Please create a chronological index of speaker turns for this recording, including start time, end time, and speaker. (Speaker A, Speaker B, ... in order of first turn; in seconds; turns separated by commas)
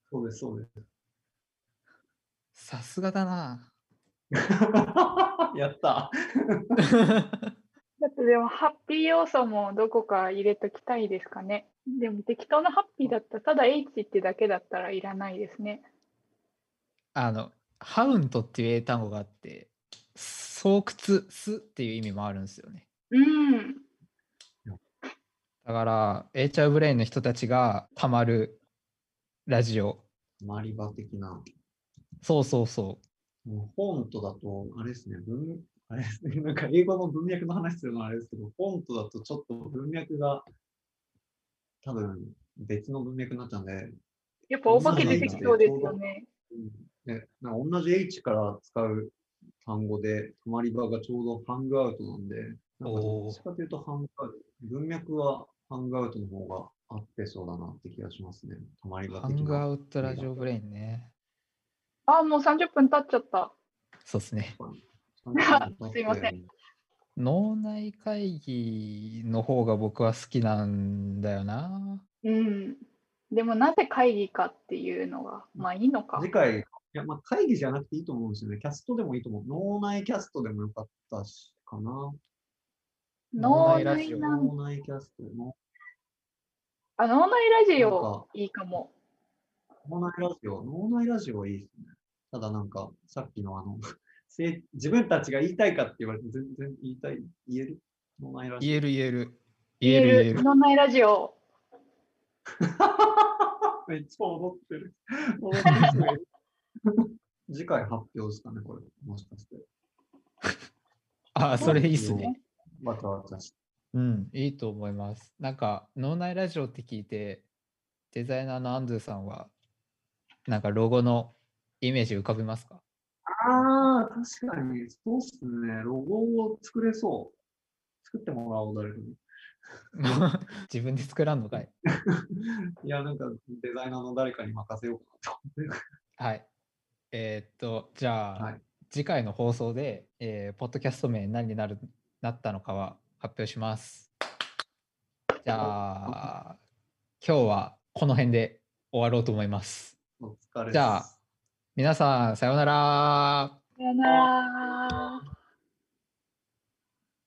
Speaker A: 0.1-0.7, Speaker B: 2.5-3.7, Speaker A: 4.3-6.8, Speaker B: 7.0-7.5, Speaker C: 8.0-15.8, Speaker B: 17.1-22.8, Speaker C: 23.1-23.8, Speaker B: 25.6-28.6, Speaker B: 29.5-30.0, Speaker A: 30.4-31.4, Speaker B: 32.2-33.0, Speaker A: 33.5-40.4, Speaker A: 41.8-43.9, Speaker C: 44.5-46.3, Speaker A: 44.7-46.0, Speaker B: 44.7-45.5, Speaker A: 46.5-60.5, Speaker B: 52.8-53.4, Speaker B: 59.1-61.1, Speaker C: 62.1-63.5, Speaker B: 64.0-64.5, Speaker A: 64.5-66.5, Speaker C: 65.3-66.3, Speaker B: 67.2-72.0, Speaker C: 72.2-76.2, Speaker A: 75.6-82.2, Speaker C: 83.3-84.5, Speaker B: 83.4-84.3, Speaker A: 83.6-85.5, Speaker C: 87.0-88.9, Speaker A: 87.8-88.3, Speaker A: 89.8-98.8, Speaker B: 98.6-100.4, Speaker C: 99.8-101.3, Speaker A: 102.6-106.2, Speaker B: 105.7-106.0, Speaker A: 106.9-109.6, Speaker B: 111.3-112.3, Speaker A: 111.6-113.5, Speaker C: 111.6-112.4, Speaker B: 113.9-117.5, Speaker B: 118.1-119.5, Speaker B: 120.5-122.8, Speaker A: 123.3-127.3, Speaker A: 128.0-129.2, Speaker B: 129.9-131.7, Speaker A: 130.0-130.3, Speaker A: 132.1-135.8, Speaker B: 136.2-136.5, Speaker B: 137.1-144.1, Speaker A: 138.3-138.6, Speaker B: 145.4-146.6, Speaker A: 145.6-146.3, Speaker B: 147.2-150.0, Speaker A: 150.2-151.1, Speaker B: 150.7-151.1, Speaker B: 151.8-153.6, Speaker C: 153.8-155.2